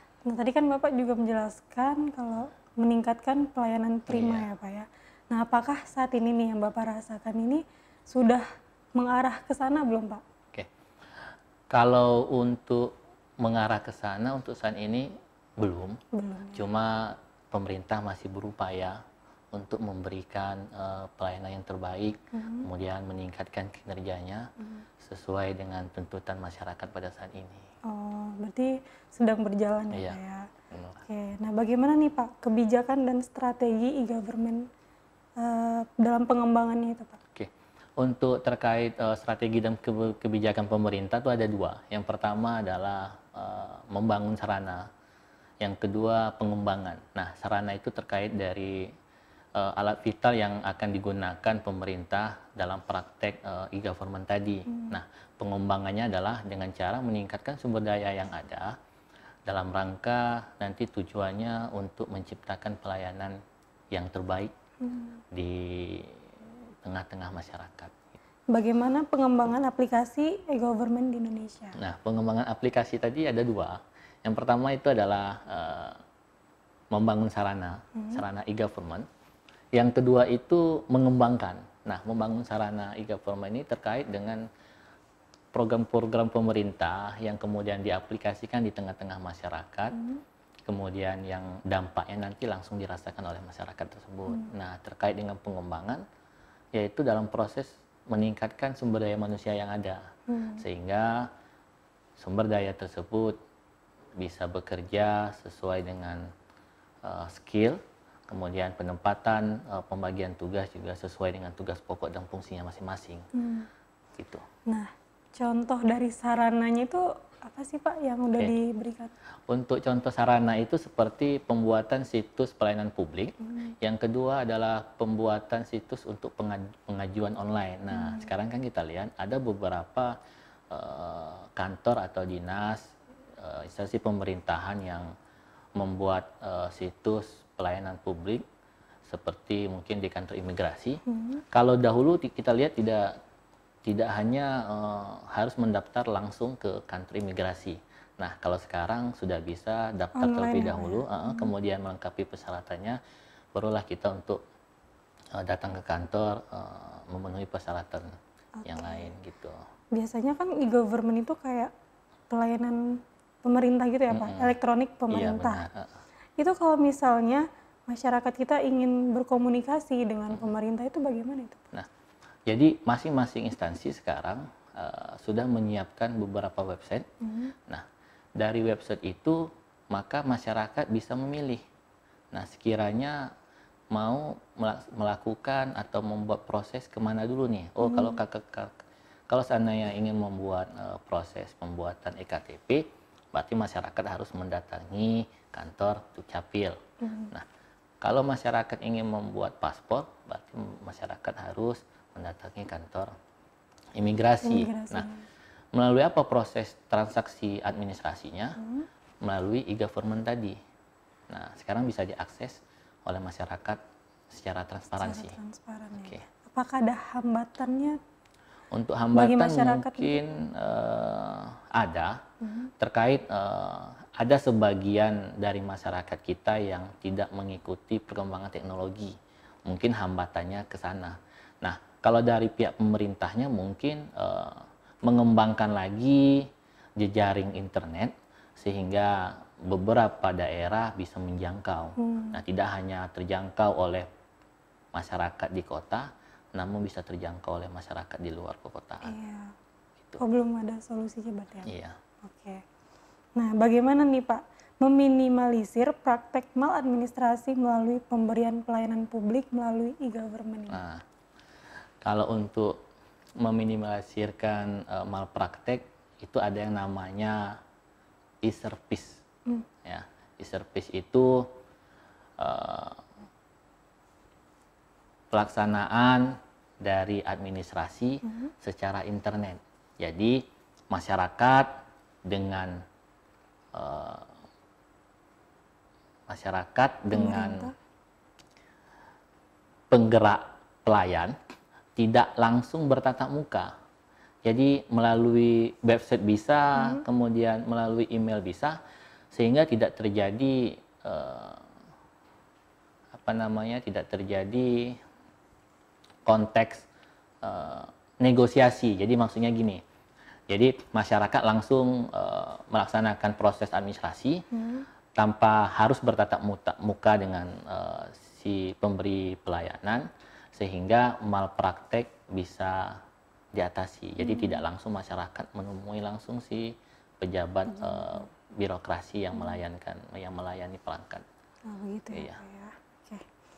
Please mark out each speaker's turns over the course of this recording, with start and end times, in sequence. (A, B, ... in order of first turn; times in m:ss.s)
0:00.2-0:08.4 A
0:04.1-0:04.5 B
0:08.9-0:10.2 A
0:11.7-0:16.0 B
0:16.1-0:16.7 A
0:16.5-0:19.0 B
0:19.5-0:24.4 B
0:22.3-0:22.7 A
0:25.0-0:27.6 B
0:27.9-0:30.5 A
0:29.9-0:30.2 B
0:30.7-0:31.0 B
0:31.0-0:34.6 A
0:35.4-0:37.2 A
0:37.3-0:44.8 B
0:45.6-0:48.9 B
0:49.6-0:58.7 B
0:54.7-0:55.0 A
0:59.5-1:03.4 B
1:03.9-1:04.5 B
1:04.8-1:05.1 A
1:05.3-1:06.2 B
1:06.8-1:07.9 B
1:08.5-1:11.8 A
1:11.8-1:16.0 B
1:16.9-1:19.0 B
1:18.0-1:18.2 A
1:19.7-1:24.4 B
1:25.5-1:30.0 B
1:30.6-1:36.0 B
1:36.7-1:40.0 B
1:40.3-1:40.6 A
1:40.6-1:41.3 B
1:42.2-1:43.4 B
1:44.2-1:46.3 B
1:47.0-1:53.2 B
1:53.4-1:53.7 A
1:54.2-1:54.4 B
1:54.7-1:59.1 A
1:59.5-2:10.1 B
2:07.9-2:08.3 A
2:10.7-2:15.1 B
2:15.8-2:18.4 B
2:19.1-2:23.1 B
2:21.1-2:21.4 A
2:23.8-2:33.0 B
2:30.1-2:31.5 A
2:33.5-2:34.4 B
2:35.4-2:38.1 B
2:38.6-2:39.1 A
2:38.6-2:39.5 B
2:39.9-2:41.7 A
2:42.3-2:42.8 A
2:43.4-2:45.6 A
2:44.1-2:44.6 B
2:45.1-2:45.9 B
2:46.4-2:51.6 A
2:52.5-2:57.0 B
2:57.2-2:57.5 A
2:58.4-3:01.6 B
3:02.3-3:03.3 B
3:03.9-3:08.7 B
3:07.8-3:08.2 A
3:09.3-3:16.8 B
3:17.0-3:17.3 A
3:18.0-3:23.1 B
3:24.0-3:25.1 B
3:24.4-3:25.2 A
3:25.7-3:28.6 B
3:28.6-3:28.8 A
3:29.2-3:30.6 B
3:31.3-3:33.8 B
3:34.3-3:35.4 B
3:35.0-3:38.0 A
3:36.0-3:36.2 B
3:38.7-3:42.2 B
3:39.1-3:40.2 A
3:42.4-3:42.7 A
3:42.8-3:49.1 B
3:49.6-4:04.1 B
4:02.0-4:02.4 A
4:04.9-4:09.1 B
4:09.0-4:09.5 A
4:10.2-4:11.7 A
4:11.6-4:12.0 B
4:12.2-4:12.6 A
4:13.4-4:20.8 A
4:20.7-4:21.0 B
4:22.0-4:22.8 B
4:23.4-4:27.6 B
4:28.4-4:29.2 B
4:29.8-4:31.5 B
4:32.4-4:33.0 B
4:35.3-4:41.7 B
4:42.2-4:42.8 B
4:43.7-4:44.3 B
4:46.3-4:47.7 B
4:47.1-4:47.7 A
4:49.9-4:51.3 B
4:52.0-4:53.7 B
4:54.4-4:58.8 B
4:56.8-4:57.0 A
4:59.3-5:01.6 B
5:03.1-5:05.0 B
5:06.2-5:06.9 B
5:07.4-5:09.8 B
5:10.5-5:14.4 B
5:14.5-5:14.8 A
5:15.2-5:23.0 B
5:23.5-5:31.2 B
5:24.2-5:24.6 A
5:27.7-5:28.2 A
5:29.3-5:29.6 A
5:31.7-5:33.2 A
5:32.1-5:32.4 B